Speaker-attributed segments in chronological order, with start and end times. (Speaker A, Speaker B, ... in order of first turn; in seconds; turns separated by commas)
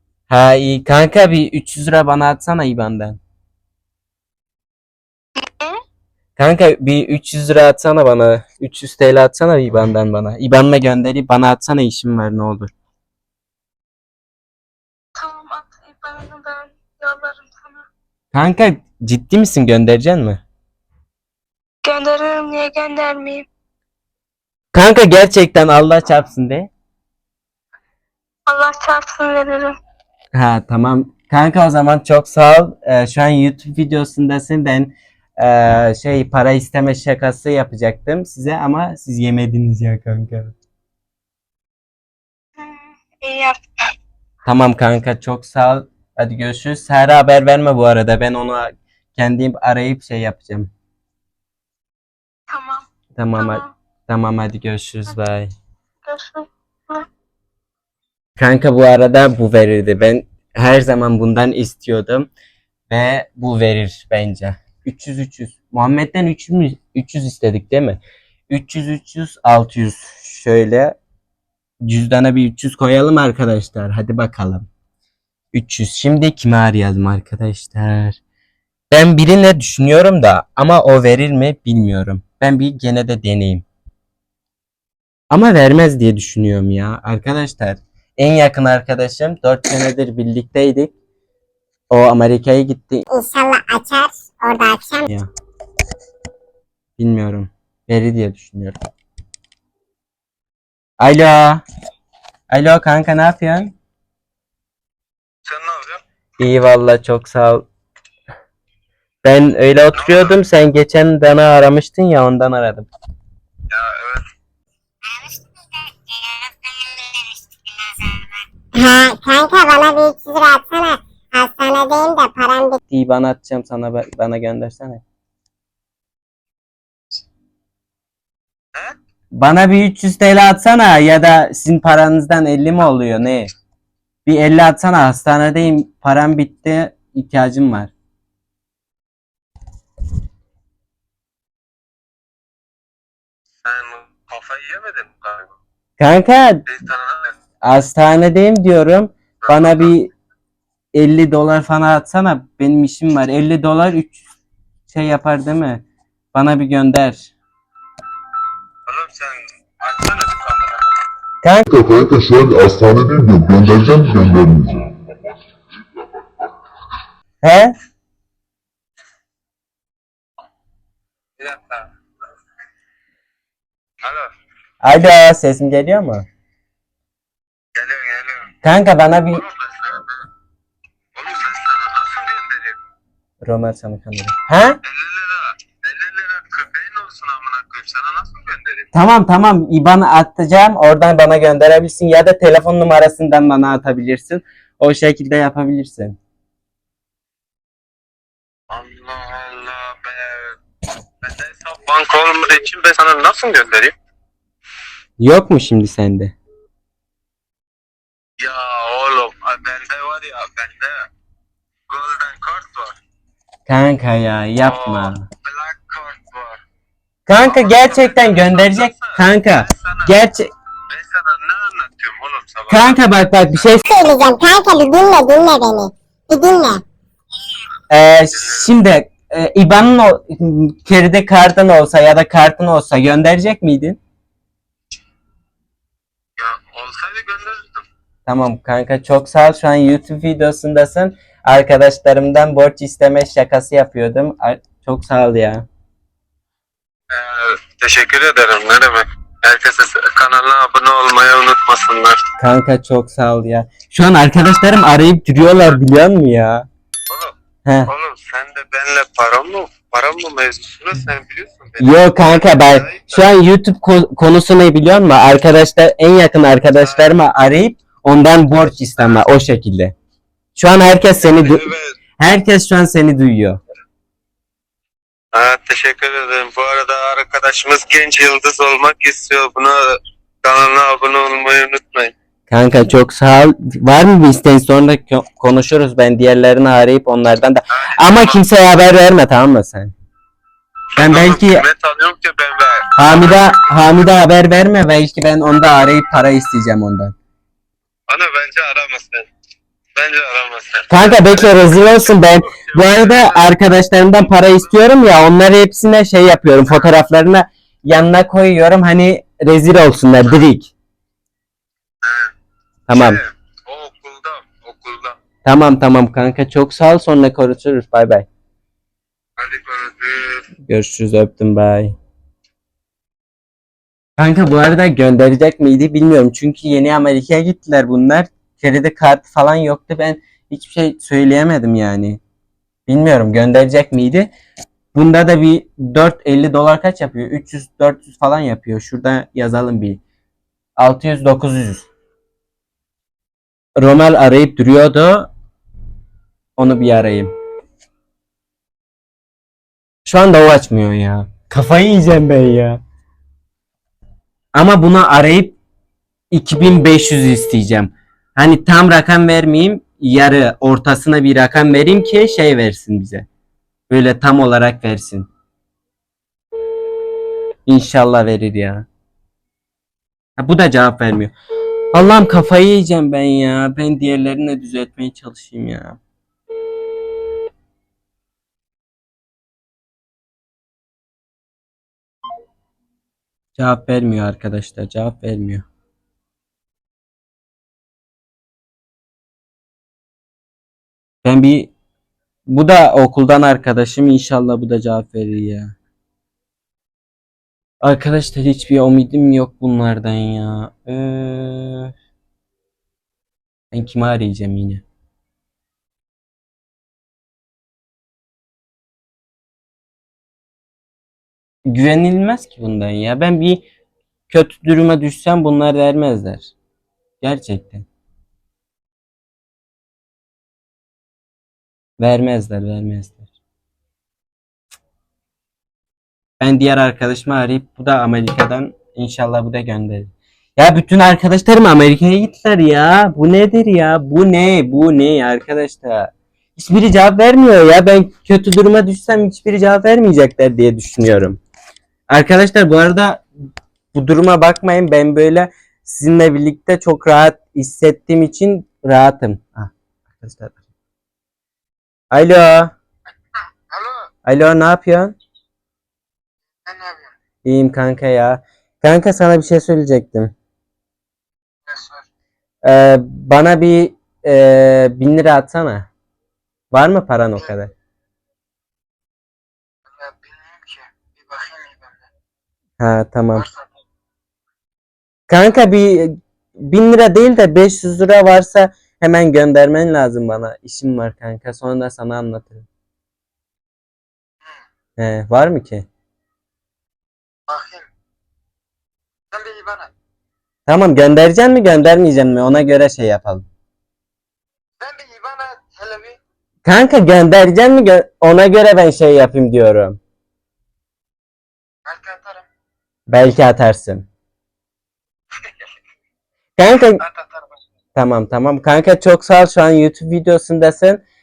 Speaker A: 0.3-3.2, Speaker B: 5.4-5.8, Speaker A: 6.4-12.7, Speaker B: 15.2-17.9, Speaker A: 18.3-20.4, Speaker B: 21.9-23.5, Speaker A: 24.7-26.7, Speaker B: 28.5-29.8, Speaker A: 30.3-40.5, Speaker B: 42.6-43.6, Speaker A: 44.5-50.7, Speaker B: 52.5-53.7, Speaker A: 53.1-55.5, Speaker B: 56.1-57.1, Speaker A: 58.4-62.3, Speaker A: 62.9-71.0, Speaker A: 71.8-74.7, Speaker A: 75.5-78.2, Speaker A: 78.9-83.7, Speaker A: 85.3-90.9, Speaker A: 91.9-93.0, Speaker C: 93.1-95.1, Speaker A: 97.0-98.8, Speaker A: 101.0-101.6, Speaker A: 102.5-103.7, Speaker D: 105.5-106.0, Speaker A: 106.4-107.7, Speaker A: 109.2-112.9, Speaker D: 109.9-110.4, Speaker D: 113.7-114.3, Speaker C: 115.1-118.2, Speaker C: 118.7-122.8, Speaker A: 122.9-125.0, Speaker A: 129.4-133.5, Speaker A: 134.3-137.9, Speaker D: 143.6-145.6, Speaker A: 146.0-146.6, Speaker D: 146.7-147.4, Speaker A: 147.7-150.1, Speaker D: 149.4-149.8, Speaker A: 150.9-154.2, Speaker A: 154.9-155.8, Speaker A: 156.3-157.3, Speaker D: 158.9-160.9, Speaker A: 161.4-161.7, Speaker E: 161.7-165.3, Speaker A: 167.4-167.7, Speaker D: 171.4-171.8, Speaker A: 174.8-176.3, Speaker D: 177.8-178.5, Speaker A: 178.6-179.4, Speaker D: 179.4-180.1, Speaker D: 181.2-182.8, Speaker A: 183.4-184.8, Speaker D: 184.9-188.9, Speaker A: 188.9-196.2, Speaker D: 198.7-200.6, Speaker D: 201.2-203.9, Speaker A: 205.2-206.3, Speaker D: 208.4-211.1, Speaker D: 211.9-212.9, Speaker A: 213.7-215.2, Speaker D: 214.7-216.6, Speaker A: 217.3-220.5, Speaker D: 217.4-220.1, Speaker D: 220.9-223.0, Speaker A: 222.7-223.9, Speaker C: 223.8-226.8, Speaker A: 227.9-234.0, Speaker D: 236.4-237.8, Speaker A: 238.3-245.7, Speaker D: 247.1-252.2, Speaker A: 252.4-256.7, Speaker A: 257.7-257.9, Speaker D: 257.9-263.3, Speaker A: 261.8-269.9, Speaker A: 270.6-273.6, Speaker D: 271.4-271.9, Speaker D: 275.3-282.1, Speaker A: 282.5-289.9, Speaker D: 287.8-288.4, Speaker A: 291.0-291.7, Speaker D: 291.0-292.9, Speaker A: 293.0-297.1, Speaker D: 298.1-299.3, Speaker D: 299.9-302.0, Speaker A: 300.9-310.7, Speaker D: 302.6-303.5, Speaker D: 312.0-312.3, Speaker A: 312.9-313.2, Speaker D: 312.9-315.2, Speaker A: 315.4-318.3, Speaker D: 319.4-320.4, Speaker A: 320.7-321.9, Speaker A: 324.2-332.2, Speaker A: 332.9-334.3, Speaker A: 334.9-340.0, Speaker A: 340.8-341.9, Speaker A: 343.8-345.3, Speaker A: 346.6-347.3, Speaker A: 350.1-352.8, Speaker A: 354.6-355.6, Speaker A: 356.3-363.3, Speaker A: 363.9-365.3, Speaker A: 367.7-368.9, Speaker A: 370.4-371.3, Speaker A: 371.9-376.0, Speaker A: 383.6-385.6, Speaker A: 391.2-391.7, Speaker A: 392.5-395.8, Speaker A: 397.8-401.9, Speaker A: 403.7-404.8, Speaker A: 411.7-413.7, Speaker A: 414.3-416.5, Speaker A: 417.2-417.9, Speaker A: 422.0-423.3, Speaker A: 426.4-441.4, Speaker A: 442.1-443.2, Speaker A: 443.9-450.6, Speaker A: 452.1-452.7, Speaker F: 453.7-454.1, Speaker A: 454.3-455.1, Speaker F: 456.7-457.1, Speaker A: 457.4-460.3, Speaker F: 461.7-462.0, Speaker A: 462.6-465.9, Speaker A: 466.7-467.7, Speaker F: 469.9-472.1, Speaker A: 472.8-473.5, Speaker F: 473.4-473.7, Speaker A: 475.3-482.7, Speaker A: 485.0-485.9, Speaker F: 487.5-487.9, Speaker F: 489.3-489.9, Speaker A: 490.7-493.4, Speaker F: 494.8-496.2, Speaker A: 496.6-500.0, Speaker F: 501.9-502.4, Speaker A: 503.1-504.1, Speaker A: 506.6-507.1, Speaker F: 507.0-507.5, Speaker A: 507.9-511.0